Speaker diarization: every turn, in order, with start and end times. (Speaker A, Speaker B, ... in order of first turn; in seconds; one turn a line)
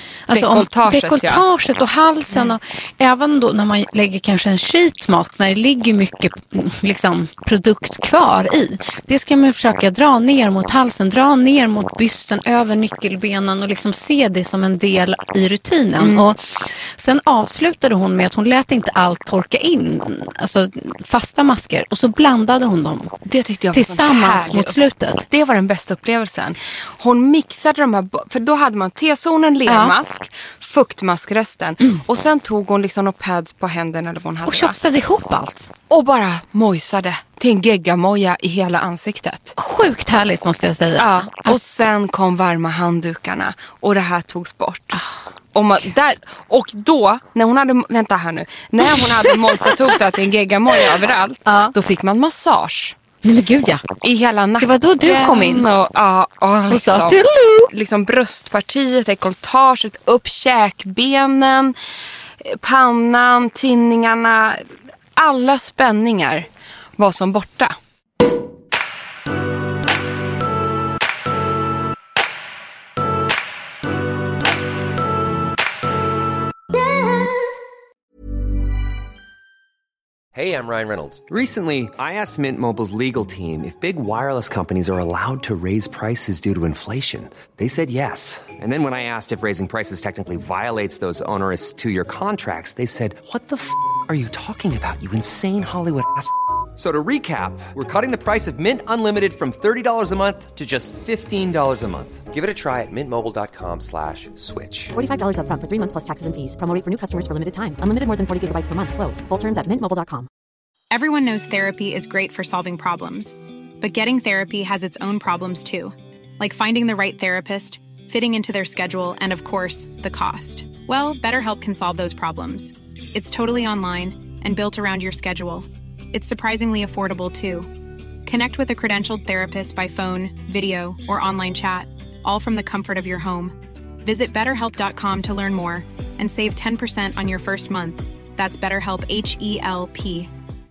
Speaker A: 0.3-23.1
Speaker B: 0.3-1.4
Speaker B: 16.0-16.2
Speaker B: 23.2-24.8
Speaker A: 23.7-25.3
Speaker B: 25.3-34.8
Speaker A: 29.6-29.9
Speaker A: 34.4-35.7
Speaker B: 35.9-39.5
Speaker A: 39.6-41.8
Speaker B: 41.0-45.0
Speaker A: 44.9-45.2
Speaker B: 45.5-53.0
Speaker A: 49.0-49.7
Speaker A: 51.5-51.7
Speaker A: 53.2-53.9
Speaker B: 54.0-61.7
Speaker A: 54.6-55.7
Speaker A: 56.7-57.7
Speaker B: 62.4-66.5
Speaker B: 67.0-67.8
Speaker C: 80.3-104.9
Speaker D: 104.9-110.3
Speaker E: 110.9-127.7
Speaker E: 128.2-140.3